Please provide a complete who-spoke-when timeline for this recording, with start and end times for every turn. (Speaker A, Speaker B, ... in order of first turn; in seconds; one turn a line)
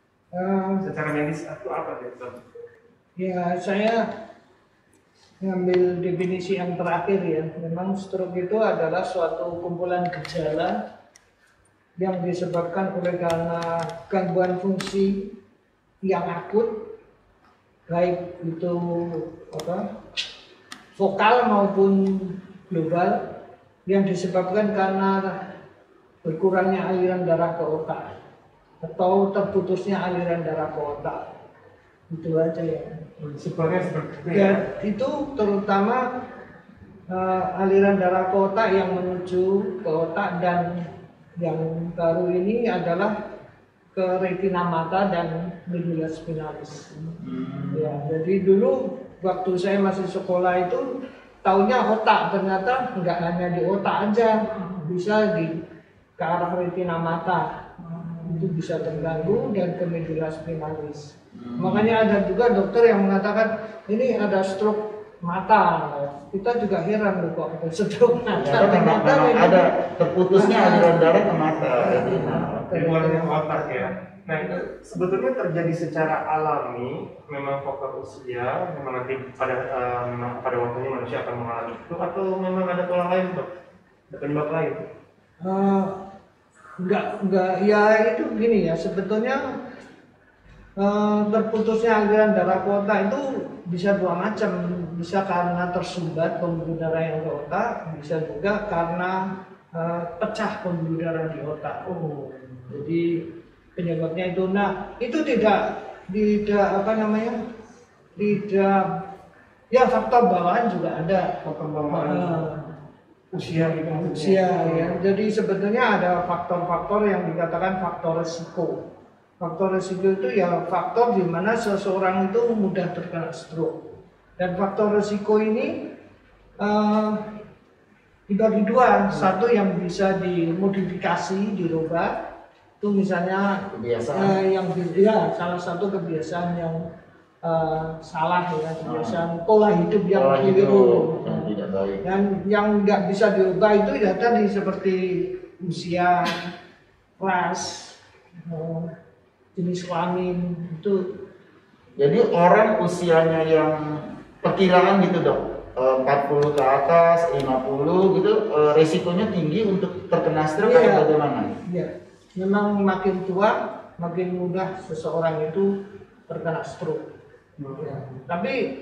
Speaker A: 0.3-0.8
Speaker B: 0.8-2.5
Speaker A: 3.2-4.0
Speaker A: 5.4-10.7
Speaker A: 12.0-15.3
Speaker A: 16.0-16.7
Speaker A: 17.9-19.8
Speaker A: 20.9-23.2
Speaker A: 23.9-25.3
Speaker A: 26.2-28.1
Speaker A: 28.8-31.2
Speaker A: 32.1-33.0
Speaker B: 33.2-34.6
Speaker A: 34.3-36.0
Speaker A: 37.1-40.7
Speaker A: 41.4-43.1
Speaker A: 43.9-47.1
Speaker C: 47.2-48.1
Speaker A: 47.7-50.9
Speaker A: 51.4-55.5
Speaker A: 56.2-57.4
Speaker A: 58.2-69.7
Speaker C: 61.3-61.9
Speaker C: 68.4-72.7
Speaker A: 70.3-74.6
Speaker B: 72.7-83.5
Speaker B: 84.1-84.8
Speaker A: 85.4-86.0
Speaker A: 86.8-89.4
Speaker A: 90.8-99.2
Speaker A: 99.7-101.8
Speaker B: 101.8-102.7
Speaker A: 102.7-103.1
Speaker A: 103.8-107.4
Speaker A: 108.2-108.9
Speaker A: 109.7-111.3
Speaker B: 111.4-112.5
Speaker A: 111.9-112.7
Speaker B: 113.3-115.0
Speaker A: 113.5-118.8
Speaker A: 119.4-123.8
Speaker A: 124.4-125.7
Speaker A: 126.6-127.2
Speaker A: 128.3-132.1
Speaker A: 132.8-136.8
Speaker C: 133.7-134.4
Speaker A: 137.4-146.3
Speaker C: 138.8-139.2
Speaker C: 140.1-142.0
Speaker A: 147.2-147.9
Speaker A: 148.5-148.9
Speaker A: 149.5-151.0
Speaker C: 152.0-153.7
Speaker C: 154.4-161.5
Speaker A: 160.6-161.1
Speaker A: 161.7-165.7
Speaker A: 166.3-167.1
Speaker B: 167.6-168.2
Speaker A: 167.8-168.6